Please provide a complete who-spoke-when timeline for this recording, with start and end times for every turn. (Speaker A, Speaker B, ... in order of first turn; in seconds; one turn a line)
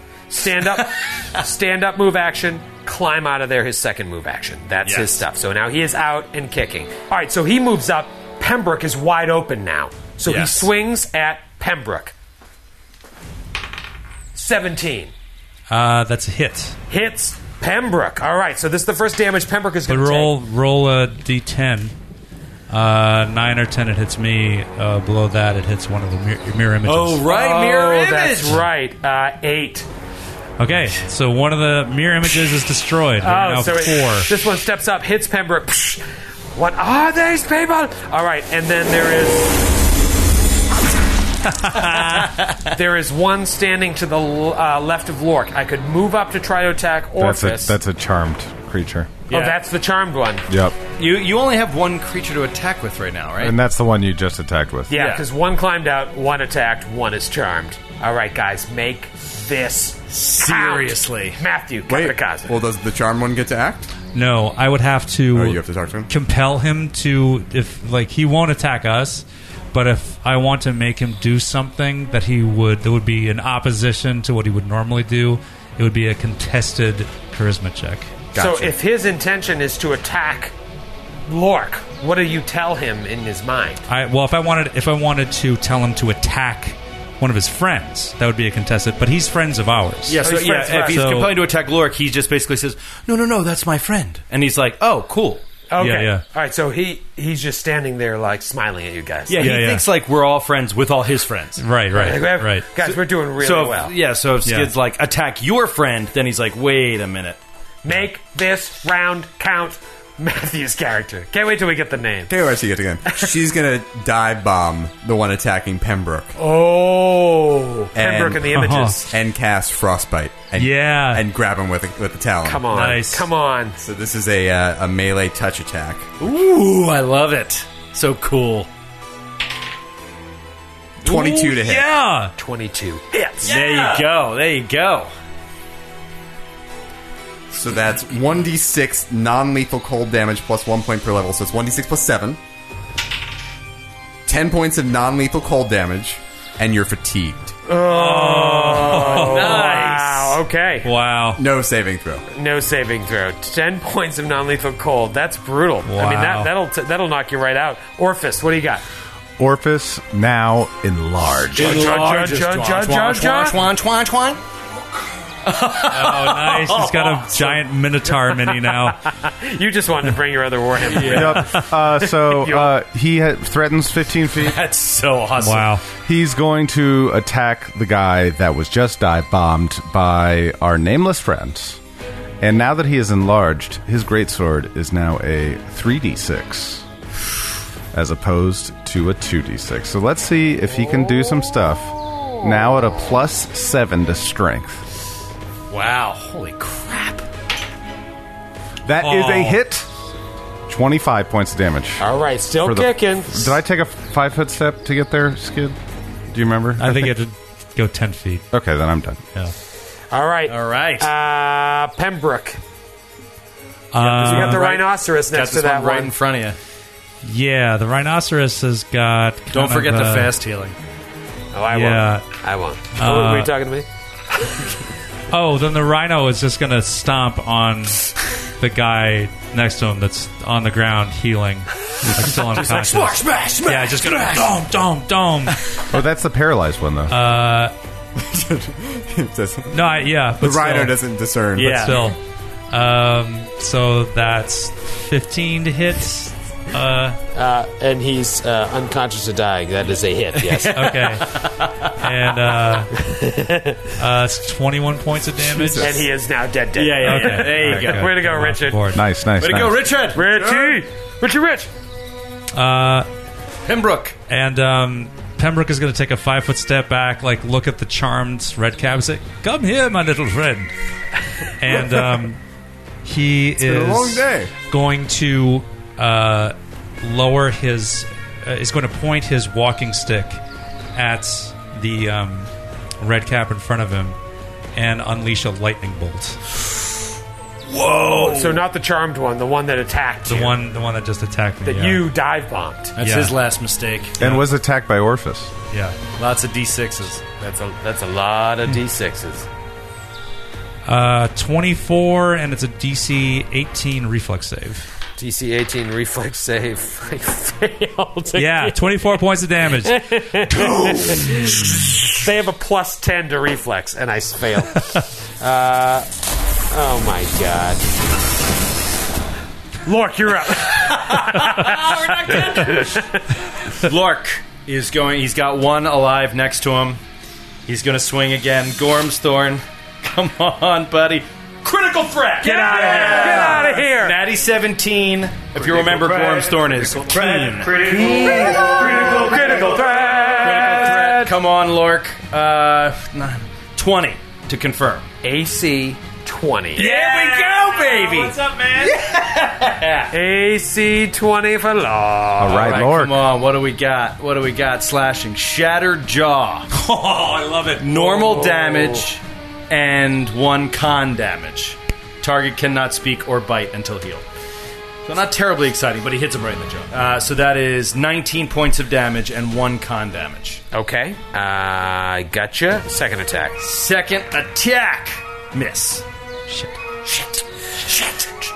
Speaker A: 0.3-12.1
Speaker B: 4.8-5.2
Speaker B: 10.2-10.7
Speaker A: 14.3-15.1
Speaker C: 15.7-16.8
Speaker A: 16.9-20.4
Speaker C: 19.9-21.9
Speaker C: 22.7-27.2
Speaker B: 26.8-28.6
Speaker A: 27.3-29.9
Speaker C: 30.6-34.3
Speaker A: 33.2-36.0
Speaker A: 36.5-39.6
Speaker C: 41.5-42.3
Speaker B: 41.9-42.6
Speaker A: 42.6-47.8
Speaker D: 47.2-49.1
Speaker A: 49.3-50.5
Speaker B: 49.3-49.6
Speaker D: 50.5-50.8
Speaker B: 51.0-53.5
Speaker D: 53.4-54.9
Speaker A: 54.9-62.6
Speaker B: 54.9-55.2
Speaker B: 60.1-61.4
Speaker E: 61.9-63.9
Speaker C: 64.1-78.2
Speaker E: 65.3-66.1
Speaker E: 78.3-78.7
Speaker A: 78.3-80.5
Speaker A: 81.3-83.8
Speaker C: 83.9-91.4
Speaker B: 90.1-95.4
Speaker A: 90.2-91.0
Speaker A: 95.7-99.5
Speaker C: 95.8-96.2
Speaker B: 99.3-102.1
Speaker C: 99.4-99.8
Speaker C: 101.6-102.7
Speaker A: 101.9-103.9
Speaker B: 102.8-107.4
Speaker C: 104.4-104.7
Speaker A: 107.8-112.3
Speaker E: 112.3-116.3
Speaker A: 116.3-119.1
Speaker E: 117.9-122.7
Speaker C: 118.5-119.0
Speaker C: 120.5-121.2
Speaker A: 122.4-123.8
Speaker C: 122.7-123.3
Speaker E: 123.8-126.1
Speaker B: 126.2-128.7
Speaker E: 131.0-131.9
Speaker C: 131.0-132.3
Speaker A: 132.4-133.5
Speaker B: 133.4-135.1
Speaker C: 133.5-133.9
Speaker E: 137.5-142.4
Speaker E: 144.2-147.5
Speaker A: 147.7-150.9
Speaker C: 147.8-150.1
Speaker B: 148.6-150.3
Speaker C: 150.8-151.4
Speaker E: 151.4-152.2
Speaker A: 152.3-158.8
Speaker C: 155.8-156.5
Speaker D: 159.4-161.8
Speaker B: 161.5-164.4
Speaker A: 161.6-163.6
Speaker B: 165.4-167.6
Speaker C: 165.8-169.0
Speaker A: 169.2-172.8
Speaker B: 170.9-171.5
Speaker D: 171.0-174.6
Speaker B: 174.3-175.8
Speaker C: 175.4-175.8
Speaker D: 176.0-181.8
Speaker D: 182.4-186.8
Speaker D: 187.9-194.8
Speaker B: 195.7-197.2
Speaker D: 198.8-199.9
Speaker C: 199.0-199.6
Speaker D: 200.7-202.0
Speaker A: 202.0-203.6
Speaker D: 202.6-207.1
Speaker C: 206.8-208.5
Speaker D: 208.5-209.2
Speaker A: 210.1-212.6
Speaker B: 210.5-211.1
Speaker C: 213.9-214.7
Speaker B: 213.9-216.6
Speaker A: 214.2-216.1
Speaker C: 217.2-220.3
Speaker B: 219.5-220.8
Speaker A: 221.5-223.9
Speaker C: 221.7-222.3
Speaker C: 222.9-223.5
Speaker A: 224.4-224.7
Speaker C: 225.3-235.6
Speaker B: 232.3-234.5
Speaker D: 235.9-237.1
Speaker C: 237.1-237.7
Speaker E: 238.2-242.0
Speaker C: 239.7-241.0
Speaker B: 241.6-242.1
Speaker C: 241.7-242.2
Speaker C: 242.7-247.2
Speaker A: 247.3-251.0
Speaker B: 250.4-251.9
Speaker C: 250.7-252.9
Speaker A: 253.0-253.8
Speaker C: 253.9-256.0
Speaker E: 255.5-256.0
Speaker A: 255.8-258.9
Speaker B: 256.8-258.1
Speaker C: 257.0-259.1
Speaker D: 258.9-259.9
Speaker B: 259.4-260.2
Speaker A: 260.1-261.7
Speaker E: 260.3-260.8
Speaker C: 262.5-263.1
Speaker B: 263.6-264.2
Speaker C: 264.3-270.7
Speaker C: 271.5-272.4
Speaker C: 273.0-280.4
Speaker E: 273.6-274.5
Speaker C: 280.9-284.2
Speaker C: 284.7-286.4
Speaker B: 287.7-288.6
Speaker A: 288.1-290.6
Speaker C: 290.2-292.1
Speaker A: 291.6-293.0
Speaker B: 293.0-294.2
Speaker C: 293.0-293.4
Speaker D: 294.2-295.5
Speaker C: 294.2-294.4
Speaker C: 295.7-296.0
Speaker B: 296.1-297.2
Speaker A: 297.4-299.5
Speaker C: 300.9-304.9
Speaker A: 305.2-316.1
Speaker C: 308.4-310.6
Speaker A: 316.7-317.9
Speaker A: 319.8-323.2
Speaker B: 320.8-323.1
Speaker B: 323.7-327.0
Speaker B: 327.6-345.1
Speaker A: 332.4-334.2
Speaker A: 337.6-341.3
Speaker A: 345.2-346.9
Speaker C: 346.8-349.0
Speaker B: 346.8-350.1
Speaker A: 350.1-352.7
Speaker D: 352.4-353.2
Speaker B: 352.4-356.7
Speaker C: 356.7-358.6
Speaker B: 357.8-364.2
Speaker B: 365.1-370.6
Speaker A: 370.7-373.6
Speaker B: 373.6-376.0
Speaker C: 376.5-376.7